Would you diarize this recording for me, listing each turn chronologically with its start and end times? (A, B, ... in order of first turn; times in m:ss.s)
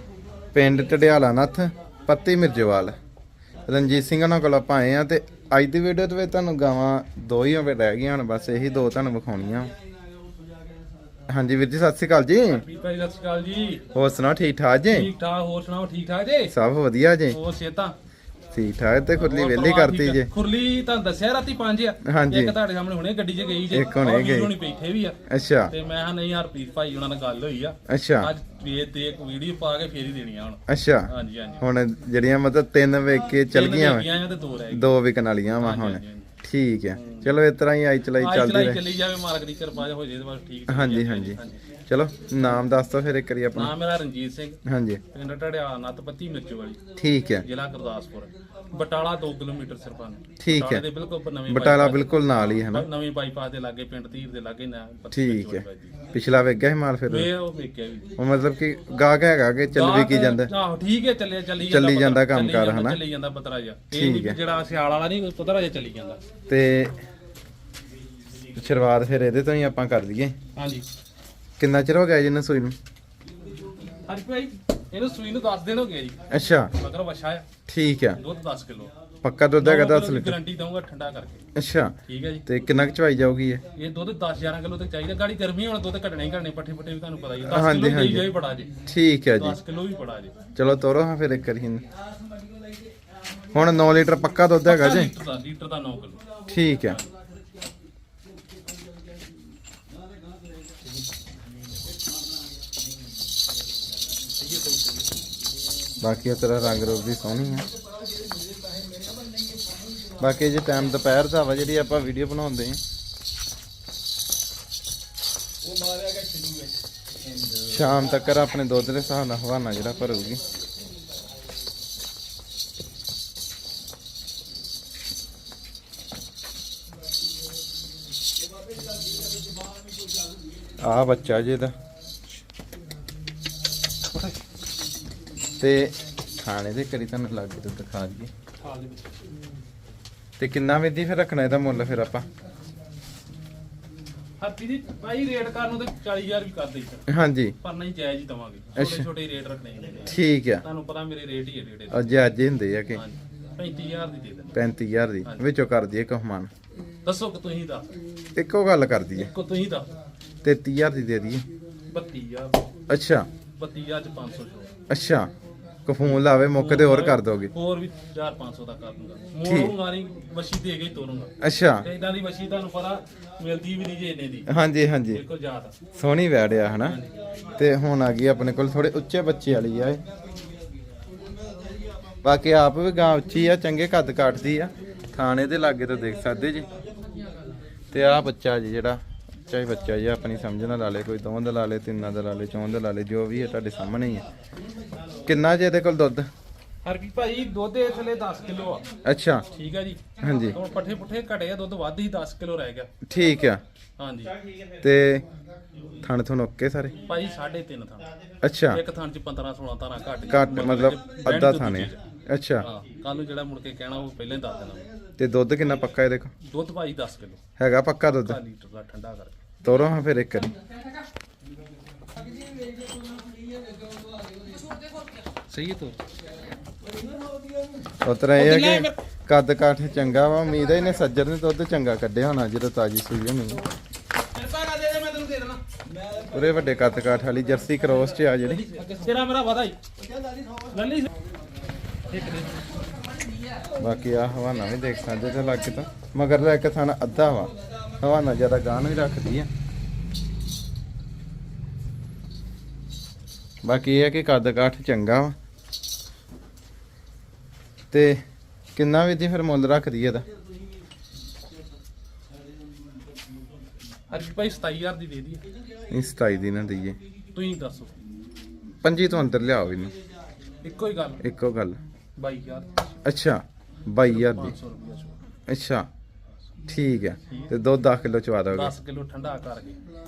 0:00.5-0:03.0 A
0:03.7-0:09.7 A
0:11.3-0:12.6 A
0:12.5-0:13.9 B
0:13.9-0:15.1 A
0:14.9-0:16.5 B
0:16.5-0:17.4 A
0:17.3-0:18.0 B
0:18.5-0:20.3 A
0:19.2-0:25.2 B
0:22.0-0:22.6 A
0:23.7-0:24.5 A
0:25.3-0:25.7 A
0:25.7-0:31.6 B
0:27.9-0:28.3 A
0:30.7-0:34.1 A
0:33.5-0:34.9 B
0:34.7-0:38.8 A
0:35.5-0:36.3 B
0:36.9-0:37.3 B
0:38.1-0:41.6 B
0:40.7-0:43.8 A
0:43.5-0:44.6 B
0:44.6-0:45.0 A
0:45.1-0:46.8 B
0:47.0-0:47.5 A
0:47.4-0:56.1 B
0:50.4-0:50.8 A
0:51.5-0:52.9 A
0:55.1-0:57.3 A
0:57.1-0:58.2 B
0:58.2-1:00.5 A
0:59.7-1:06.2 B
1:01.6-1:03.0 A
1:03.9-1:04.4 A
1:06.5-1:07.0 A
1:08.6-1:10.4 A
1:10.6-1:10.9 B
1:11.6-1:12.8 A
1:14.0-1:17.5 B
1:16.3-1:16.7 A
1:17.7-1:18.2 A
1:18.1-1:18.9 B
1:19.2-1:20.4 A
1:19.6-1:21.4 B
1:21.6-1:21.9 A
1:22.0-1:22.5 B
1:22.5-1:23.6 A
1:23.7-1:28.7 B
1:27.4-1:28.3 A
1:28.9-1:29.6 A
1:29.3-1:30.4 B
1:30.6-1:31.8 A
1:33.5-1:35.1 A
1:34.7-1:37.1 B
1:36.5-1:37.0 A
1:44.4-1:45.1 B
1:46.0-1:47.7 A
1:50.2-1:52.8 A
1:57.6-2:00.4 A
2:10.8-2:11.8 A
2:15.6-2:18.3 A
2:18.6-2:19.1 B
2:20.4-2:22.3 A
2:24.4-2:32.2 B
2:27.1-2:27.5 A
2:28.8-2:29.1 A
2:30.1-2:30.6 A
2:31.9-2:33.0 A
2:33.0-2:34.6 B
2:34.5-2:36.5 A
2:37.0-2:37.9 B
2:38.4-2:39.3 A
2:39.2-2:39.9 B
2:40.4-2:41.5 A
2:41.9-2:42.6 B
2:42.9-2:43.3 A
2:43.6-2:44.7 B
2:44.9-2:45.3 A
2:45.9-2:47.5 A
2:46.5-2:54.6 B
2:49.4-2:49.8 A
2:51.4-2:51.9 A
2:54.5-2:55.2 A
2:55.1-2:55.8 B
2:56.0-2:57.0 A
2:56.8-2:57.2 B
2:57.6-3:00.0 A
3:02.2-3:06.7 A
3:07.9-3:14.3 A
3:15.2-3:16.3 A
3:16.8-3:18.8 B
3:19.0-3:19.4 A
3:19.5-3:22.9 B
3:20.2-3:20.6 A
3:23.1-3:23.6 A
3:24.0-3:24.4 B
3:24.8-3:25.3 A
3:26.0-3:27.0 A
3:27.1-3:28.1 B
3:28.4-3:28.8 A
3:28.7-3:32.0 B
3:30.2-3:32.7 A
3:32.6-3:34.9 B
3:35.2-3:36.3 A
3:36.4-3:37.4 B
3:37.6-3:38.4 A
3:38.2-3:39.5 B
3:39.6-3:40.6 A
3:45.5-3:46.0 B
3:48.0-3:53.6 A
3:48.4-3:49.0 B
3:54.2-3:55.6 B
3:56.3-3:58.7 A
3:58.4-3:59.8 B
4:00.7-4:01.1 B
4:02.1-4:02.7 B
4:03.8-4:09.5 A
4:13.6-4:15.4 A
4:17.9-4:18.2 A
4:18.8-4:20.3 A
4:24.1-4:25.4 B
4:25.9-4:27.0 A
4:27.3-4:27.9 B
4:28.8-4:29.9 A
4:30.6-4:31.2 B
4:31.2-4:31.8 A
4:32.2-4:32.8 B
4:33.0-4:34.6 A
4:34.0-4:35.2 B
4:35.5-4:35.9 A
4:36.7-4:38.7 A
4:37.3-4:37.5 B
4:38.5-4:39.8 B